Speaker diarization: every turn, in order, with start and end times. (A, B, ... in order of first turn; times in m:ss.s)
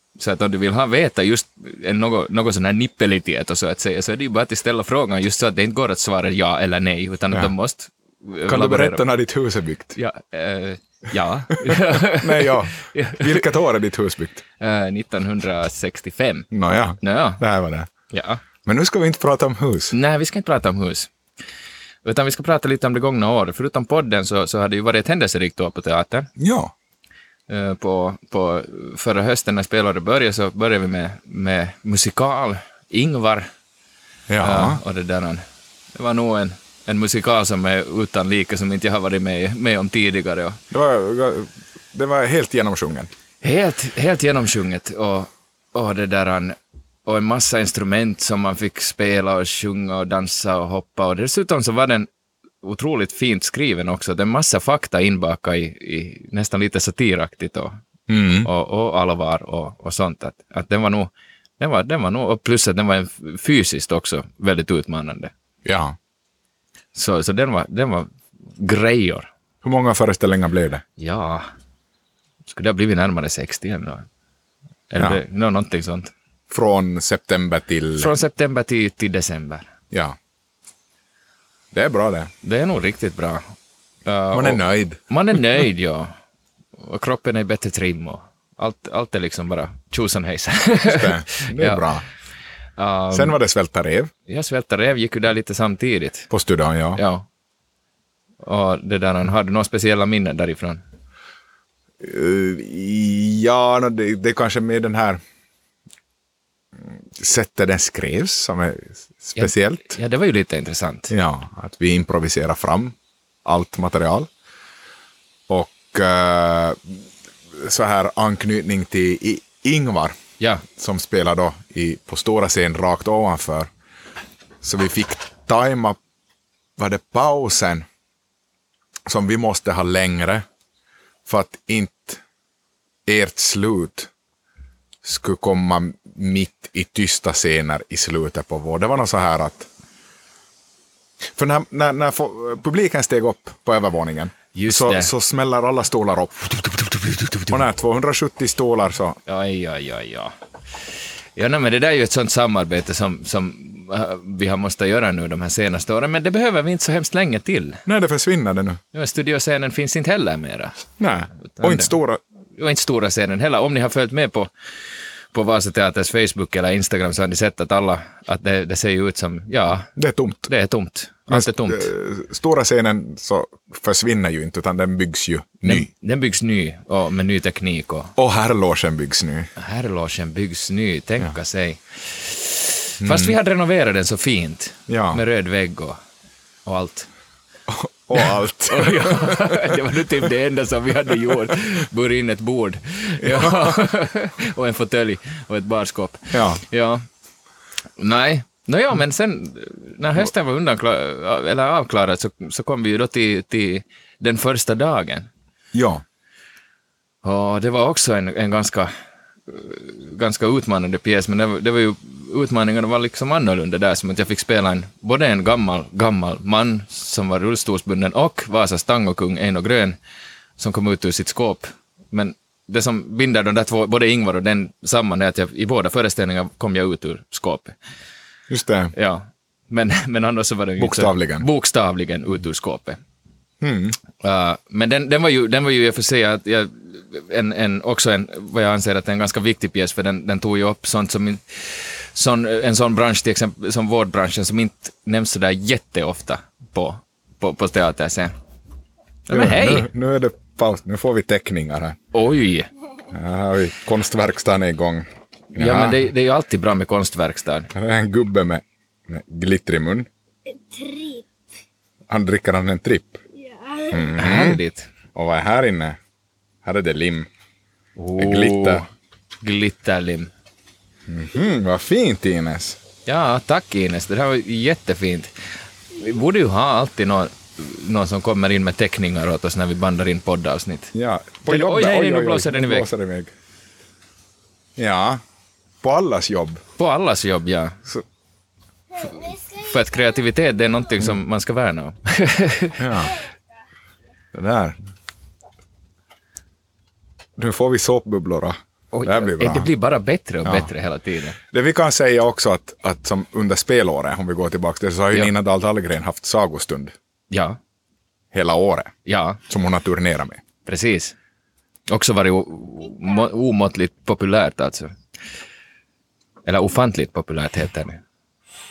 0:00.2-0:09.0 A
0:08.5-0:10.0 B
0:10.0-0:13.4 A
0:11.6-0:14.4 B
0:14.6-0:16.5 A
0:16.5-0:17.9 B
0:17.0-0:17.4 A
0:18.1-0:18.4 A
0:18.6-0:19.9 B
0:19.9-0:21.1 A
0:22.0-0:26.3 A
0:26.4-0:26.7 B
0:27.5-0:33.5 A
0:34.3-0:34.8 B
0:34.4-0:35.4 A
0:36.0-0:40.6 A
0:40.7-0:43.1 B
0:43.4-0:52.1 A
0:52.6-0:57.8 A
0:58.1-0:58.5 B
0:58.4-1:05.3 A
1:05.6-1:06.0 B
1:06.9-1:09.3 A
1:09.6-1:10.8 B
1:11.0-1:11.5 A
1:12.5-1:14.1 A
1:14.9-1:16.1 A
1:16.5-1:18.1 B
1:18.0-1:19.7 A
1:19.9-1:20.2 B
1:21.7-1:22.3 B
1:22.4-1:23.4 A
1:24.1-1:26.1 A
1:24.3-1:25.0 B
1:26.8-1:31.9 A
1:30.9-1:32.0 B
1:32.8-1:33.4 A
1:33.1-1:34.1 B
1:34.3-1:36.3 A
1:36.3-1:37.0 B
1:37.0-1:37.3 A
1:38.4-1:40.8 A
1:42.0-1:45.2 B
1:46.8-1:50.0 B
1:49.4-1:51.1 A
1:51.1-1:54.3 B
1:55.5-1:57.0 B
1:57.5-2:00.2 B
2:00.7-2:03.7 B
2:04.6-2:06.0 B
2:06.8-2:07.9 B
2:09.1-2:10.4 B
2:11.3-2:12.2 B
2:13.1-2:14.1 B
2:15.0-2:19.7 B
2:21.3-2:29.2 B
2:24.5-2:25.1 A
2:29.3-2:30.3 A
2:31.4-2:37.8 A
2:37.9-2:38.8 B
2:38.9-2:40.8 A
2:41.0-2:42.2 B
2:41.4-2:41.9 A
2:42.6-2:44.5 A
2:45.3-2:49.9 A
2:50.0-2:50.5 B
2:50.5-2:51.9 A
2:51.3-2:55.9 B
2:55.6-2:58.1 A
2:58.2-2:59.5 B
2:59.6-3:06.0 A
3:03.0-3:03.4 B
3:04.9-3:05.2 B
3:06.6-3:07.1 A
3:07.7-3:09.8 B
3:08.2-3:17.0 A
3:13.2-3:13.8 B
3:16.3-3:16.6 B
3:18.0-3:25.3 A
3:25.7-3:26.0 B
3:27.2-3:28.9 A
3:29.5-3:40.0 A
3:40.6-3:47.8 A
3:48.5-3:48.9 B
3:48.9-3:53.0 A
3:50.8-3:51.5 B
3:53.6-3:54.0 B
3:54.2-4:08.3 A
4:09.3-4:09.9 A
4:09.3-4:12.0 B
4:12.1-4:12.7 A
4:13.1-4:16.0 B
4:15.6-4:17.7 A
4:17.7-4:20.1 B
4:20.5-4:21.2 C
4:22.1-4:23.2 B
4:23.4-4:24.1 C
4:23.9-4:24.6 B
4:24.2-4:24.9 A
4:25.1-4:26.0 B
4:26.6-4:27.3 B
4:28.0-4:28.9 A
4:28.2-4:28.8 B
4:29.4-4:30.3 A
4:31.1-4:32.8 B
4:33.1-4:35.3 A
4:35.9-4:40.9 A
4:40.9-4:43.3 B
4:41.4-4:42.9 A
4:44.8-4:45.2 B
4:45.8-4:46.6 B
4:46.8-4:47.8 A
4:49.0-4:49.7 C
4:49.6-4:52.9 A
4:52.8-4:53.2 B
4:54.3-4:54.8 B
4:57.4-4:59.7 B
4:58.9-5:01.4 A
5:00.4-5:00.7 B
5:01.4-5:07.0 B
5:07.3-5:07.6 A
5:08.3-5:08.9 B
5:09.1-5:09.4 A
5:09.5-5:10.4 B
5:10.7-5:11.2 A
5:11.9-5:14.9 A
5:16.5-5:18.0 A